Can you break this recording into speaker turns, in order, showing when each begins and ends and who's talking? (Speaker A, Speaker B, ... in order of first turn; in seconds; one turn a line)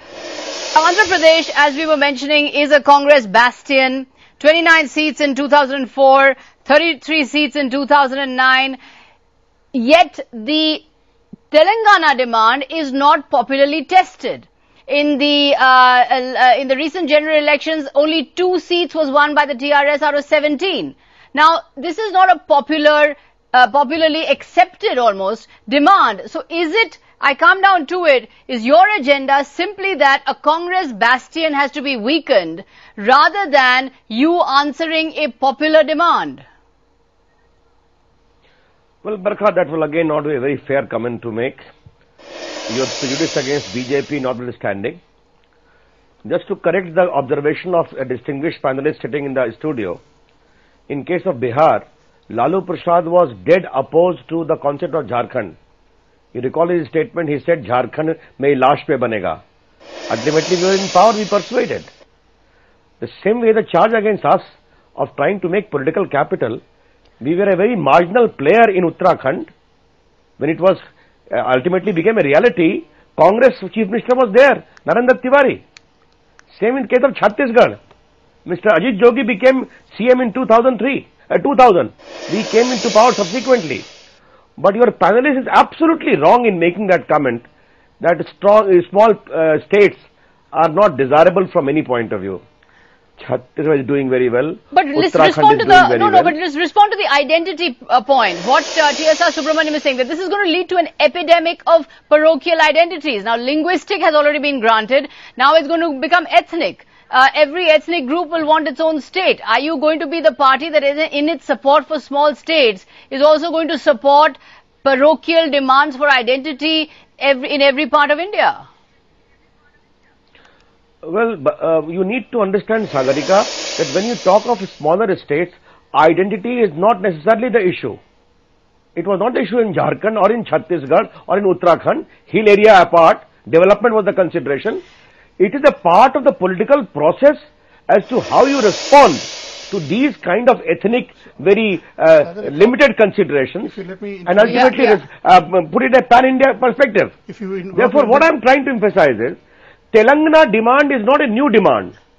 Speaker A: 0.7-8.8
Speaker A: 9.7-10.8
Speaker A: 11.5-36.4
Speaker B: 39.0-41.6
Speaker B: 42.7-45.0
Speaker B: 46.2-50.0
Speaker B: 50.9-55.5
Speaker B: 56.3-59.4
Speaker B: 60.1-61.9
Speaker B: 63.0-66.6
Speaker B: 67.2-69.5
Speaker B: 70.4-70.8
Speaker B: 71.3-75.6
Speaker B: 76.5-77.8
Speaker B: 78.5-83.8
Speaker B: 84.6-87.4
Speaker B: 88.0-92.4
Speaker B: 93.2-96.3
Speaker A: 94.7-118.6
Speaker B: 121.0-128.0
Speaker B: 128.9-134.8
Speaker B: 135.4-143.7
Speaker C: 142.2-142.8
Speaker C: 143.6-144.9
Speaker B: 144.3-147.1
Speaker A: 144.4-145.0
Speaker C: 147.3-148.3
Speaker B: 147.7-149.4
Speaker B: 149.9-151.9